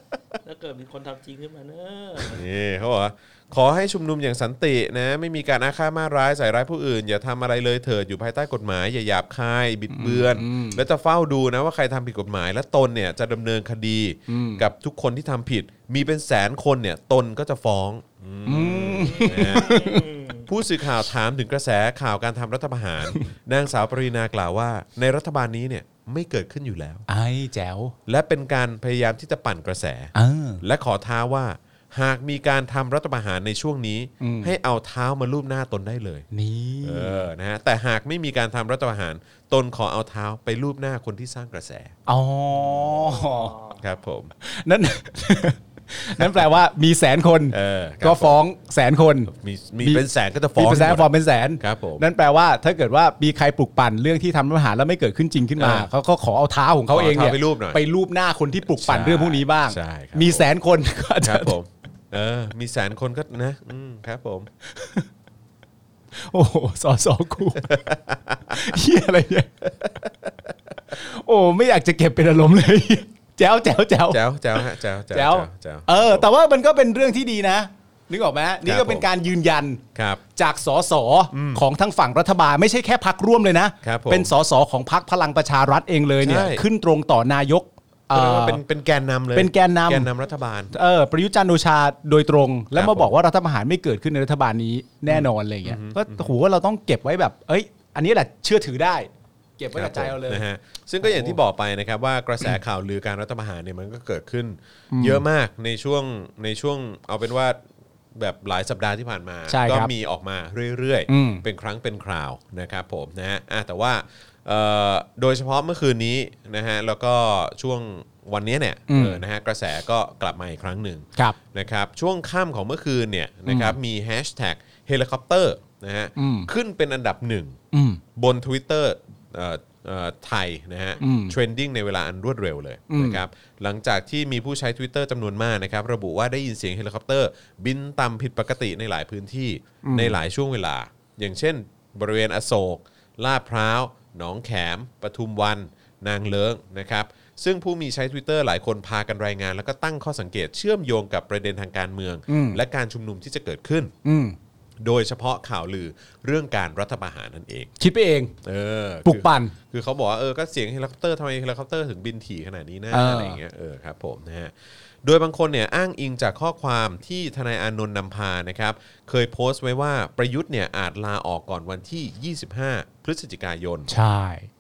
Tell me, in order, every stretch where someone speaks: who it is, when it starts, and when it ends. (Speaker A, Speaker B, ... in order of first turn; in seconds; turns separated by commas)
Speaker A: 0.5-2.4, Speaker B: 2.2-19.8, Speaker C: 9.9-10.8, Speaker C: 14.3-14.7, Speaker C: 18.5-20.0, Speaker A: 18.9-20.5, Speaker B: 20.5-27.1, Speaker C: 27.1-27.9, Speaker B: 28.1-36.3, Speaker C: 30.1-30.6, Speaker C: 34.2-34.5, Speaker C: 36.3-37.3, Speaker B: 36.8-41.9, Speaker C: 42.1-43.6, Speaker A: 43.3-43.7, Speaker B: 43.8-44.3, Speaker C: 44.4-49.3, Speaker B: 46.2-46.4, Speaker B: 47.5-48.4, Speaker B: 49.3-51.1, Speaker C: 50.6-61.5, Speaker B: 51.6-52.0, Speaker B: 55.6-55.9, Speaker B: 56.9-57.8, Speaker B: 58.8-60.5, Speaker B: 61.2-64.5, Speaker C: 64.7-65.1, Speaker C: 66.2-67.8, Speaker B: 67.6-68.8, Speaker C: 68.5-69.5, Speaker B: 69.8-70.3, Speaker C: 70.9-79.8, Speaker B: 74.1-76.3, Speaker B: 78.7-79.1, Speaker B: 80.0-80.2, Speaker C: 80.4-88.6, Speaker B: 81.3-81.6, Speaker B: 83.8-84.3, Speaker B: 86.2-86.6, Speaker B: 88.1-90.7, Speaker C: 89.3-90.1, Speaker C: 90.7-100.4, Speaker B: 92.7-93.1, Speaker B: 95.1-96.3, Speaker B: 99.8-107.6, Speaker C: 101.0-101.4, Speaker C: 104.9-105.2, Speaker B: 108.1-127.6, Speaker C: 109.5-109.9, Speaker C: 111.1-111.4, Speaker C: 118.9-119.2, Speaker C: 123.5-123.8, Speaker C: 126.2-126.5, Speaker C: 127.7-128.0, Speaker B: 128.2-153.9, Speaker C: 131.0-131.4, Speaker C: 132.9-133.2, Speaker C: 139.8-140.2, Speaker C: 152.3-152.6, Speaker C: 154.1-154.4, Speaker B: 154.8-157.7, Speaker C: 157.8-158.3, Speaker B: 158.4-173.9, Speaker C: 159.1-159.6, Speaker C: 162.9-163.4, Speaker C: 173.9-174.5